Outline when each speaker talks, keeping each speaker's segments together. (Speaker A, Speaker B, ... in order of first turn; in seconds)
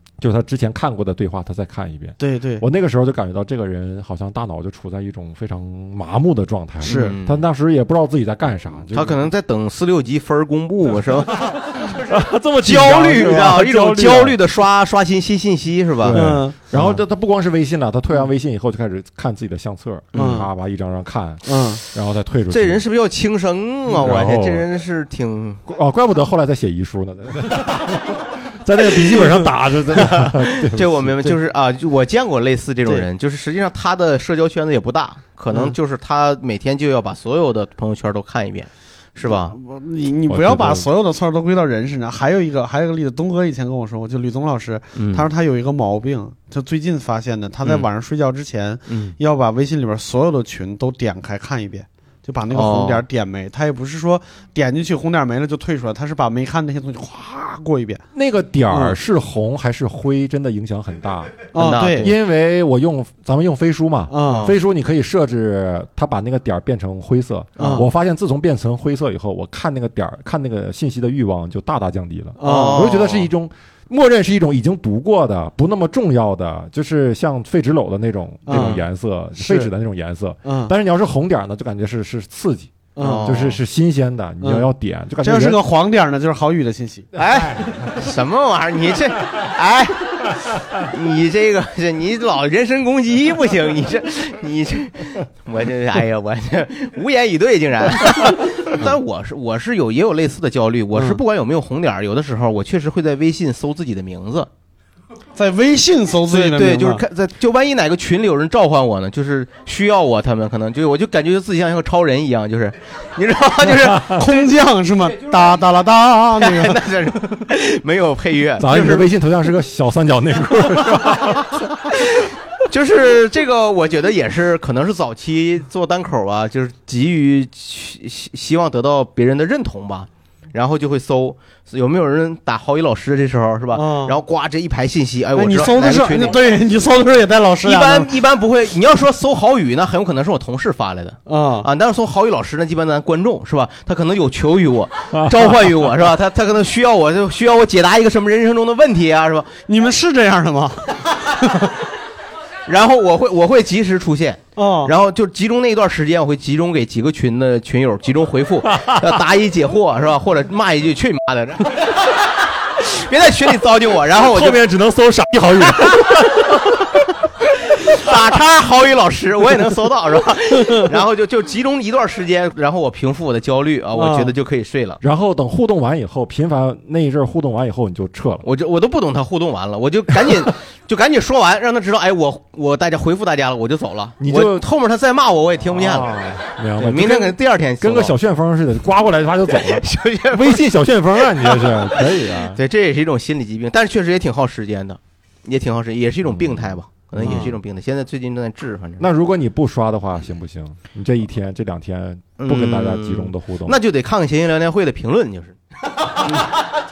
Speaker A: 0.2-9.3, 11.8-14.4, 16.0-22.8, 23.9-24.7, 25.6-31.2, 40.3-40.9, 58.1-85.6, 87.2-88.0, 113.8-114.1, 118.6-121.6, 145.1-145.6, 158.7-159.1, 164.1-167.0, 175.0-178.4, 184.2-184.7, 185.7-192.6, 196.3-197.6, 199.0-203.8
Speaker B: 2.2-2.6, 6.8-7.2, 16.1-17.0, 20.1-20.5, 21.4-21.8, 39.2-58.0, 58.7-59.0, 61.5-62.1, 64.1-64.5, 67.6-67.8, 72.4-73.2, 78.5-78.8, 79.4-79.7, 80.4-80.7, 83.0-83.4, 84.4-84.7, 85.2-87.1, 105.3-107.0, 114.2-116.8, 133.7-134.2, 135.3-138.1, 141.2-141.7, 149.7-151.7, 154.6-154.9, 173.9-174.3, 197.2-197.5
Speaker C: 6.8-7.4, 8.9-11.6, 12.6-16.3, 22.5-25.6, 30.1-39.5, 44.9-45.2, 48.9-49.1, 52.5-53.0, 61.5-62.1, 64.2-64.6, 67.5-67.8, 72.4-73.0, 83.0-83.6, 87.2-104.5, 106.3-114.2, 116.3-119.1, 121.9-136.5, 137.6-149.6, 152.7-164.6, 167.9-175.0, 178.4-186.1, 186.8-188.1, 189.5-190.6, 191.2-199.1, 202.4-206.5